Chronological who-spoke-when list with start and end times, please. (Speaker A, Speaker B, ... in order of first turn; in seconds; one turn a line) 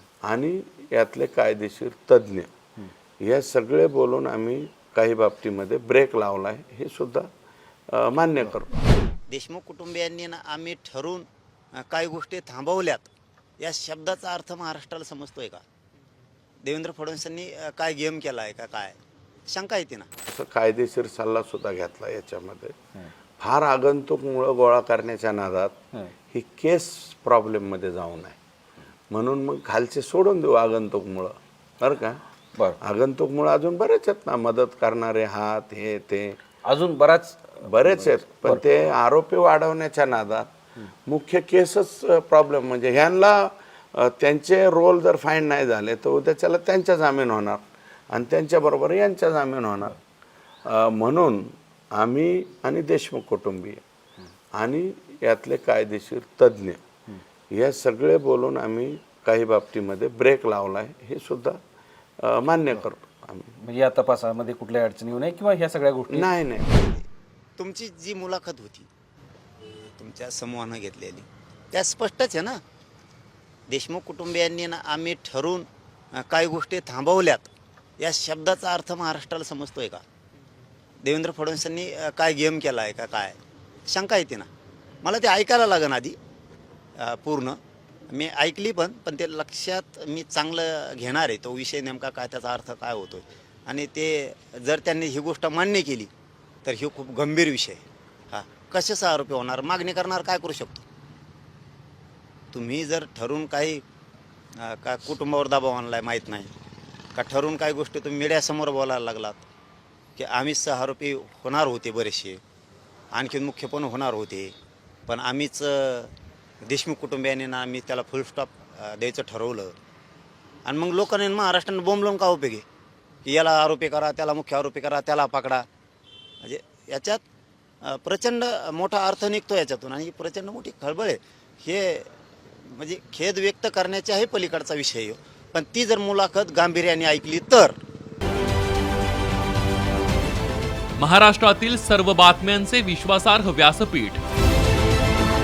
Speaker A: 0.2-2.5
Speaker A: 3.2-7.3
Speaker A: 7.9-8.8
Speaker B: 9.3-11.2
Speaker B: 11.9-15.6
Speaker B: 16.6-19.0
Speaker B: 19.5-20.1
Speaker A: 20.2-22.8
Speaker A: 23.4-25.8
Speaker A: 26.3-28.4
Speaker A: 29.1-32.2
Speaker A: 32.8-36.4
Speaker C: 36.6-38.6
Speaker A: 37.6-40.5
Speaker A: 41.0-50.0
Speaker A: 50.6-53.8
Speaker A: 54.5-56.8
Speaker A: 57.5-61.6
Speaker A: 62.2-63.5
Speaker C: 63.6-66.3
Speaker A: 66.1-66.9
Speaker B: 67.6-68.9
Speaker B: 69.8-72.6
Speaker B: 73.7-75.7
Speaker B: 76.2-80.0
Speaker B: 81.0-84.5
Speaker B: 85.0-86.2
Speaker B: 87.0-87.6
Speaker B: 88.1-96.1
Speaker B: 96.6-100.8
Speaker B: 102.5-103.8
Speaker B: 104.6-106.5
Speaker B: 107.2-109.5
Speaker B: 110.2-112.4
Speaker B: 113.1-114.5
Speaker B: 115.1-116.1
Speaker B: 116.6-119.7
Speaker B: 120.7-122.6
Speaker B: 123.2-125.6
Speaker B: 126.4-127.2
Speaker B: 127.8-137.8
Speaker D: 141.0-144.2